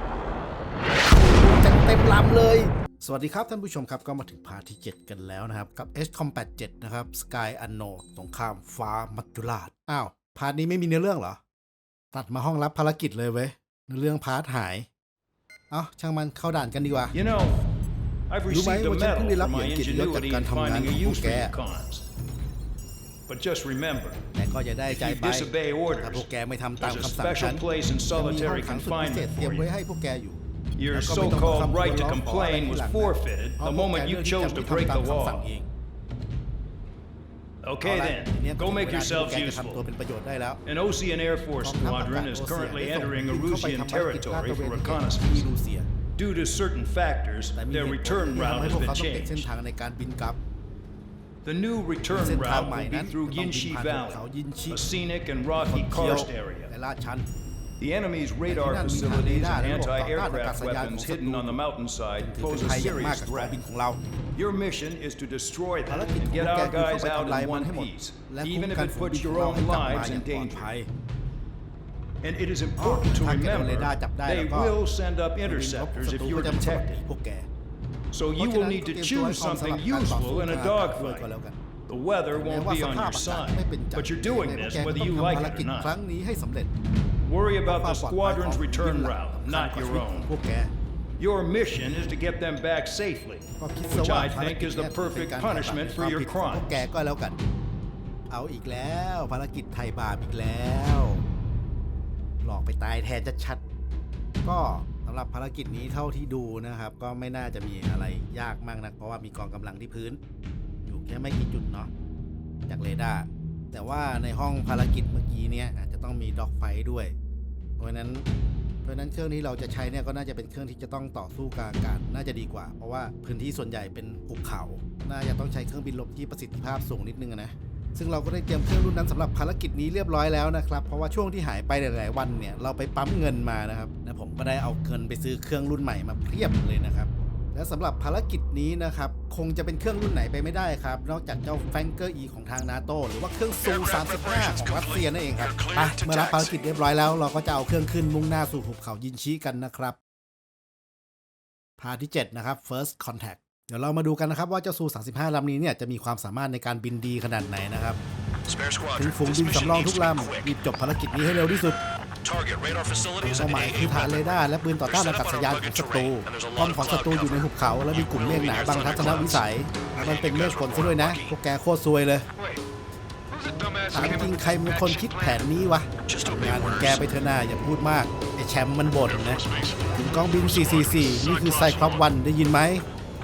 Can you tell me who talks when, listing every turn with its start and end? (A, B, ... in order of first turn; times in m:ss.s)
0:01.1-0:11.4 A
0:12.1-0:14.9 A
0:15.7-0:17.2 A
0:17.1-0:17.6 B
0:18.3-0:22.0 B
0:18.5-0:21.5 A
0:23.3-0:24.2 B
0:24.4-0:35.7 A
0:24.9-0:26.3 B
0:26.8-0:29.7 B
0:30.8-0:35.5 B
0:37.6-0:39.8 B
0:37.8-0:40.6 A
0:40.6-0:45.5 B
0:41.6-0:45.9 A
0:46.2-0:49.5 B
0:47.6-0:50.4 A
0:51.4-0:56.7 B
0:52.1-0:54.9 A
0:55.6-0:57.3 A
0:57.8-1:03.6 B
0:58.5-1:01.6 A
1:02.2-1:04.0 A
1:04.4-1:10.7 B
1:05.9-1:10.9 A
1:12.2-1:17.0 B
1:12.8-1:14.8 A
1:15.5-1:17.5 A
1:18.1-1:21.3 B
1:18.4-1:21.6 A
1:21.9-1:25.9 B
1:22.3-1:26.7 A
1:27.2-1:30.3 B
1:27.7-1:30.7 A
1:31.2-1:36.8 B
1:33.6-1:37.4 A
1:38.3-1:41.2 A
1:42.4-1:43.6 A
1:44.4-1:50.2 A
1:50.8-1:51.9 A
1:52.7-1:57.2 A
1:57.8-1:58.2 A
1:58.8-2:30.0 A
2:23.6-2:26.6 C
2:31.8-2:38.0 A
2:38.5-2:40.5 C
2:39.0-2:41.8 A
2:42.2-2:44.1 C
2:43.2-2:52.3 A
2:44.9-2:49.4 C
2:50.0-2:51.3 C
2:53.3-2:55.4 C
2:53.9-2:59.4 A
2:56.1-2:57.0 C
2:59.1-2:59.8 C
2:59.9-3:02.8 A
3:00.4-3:02.0 C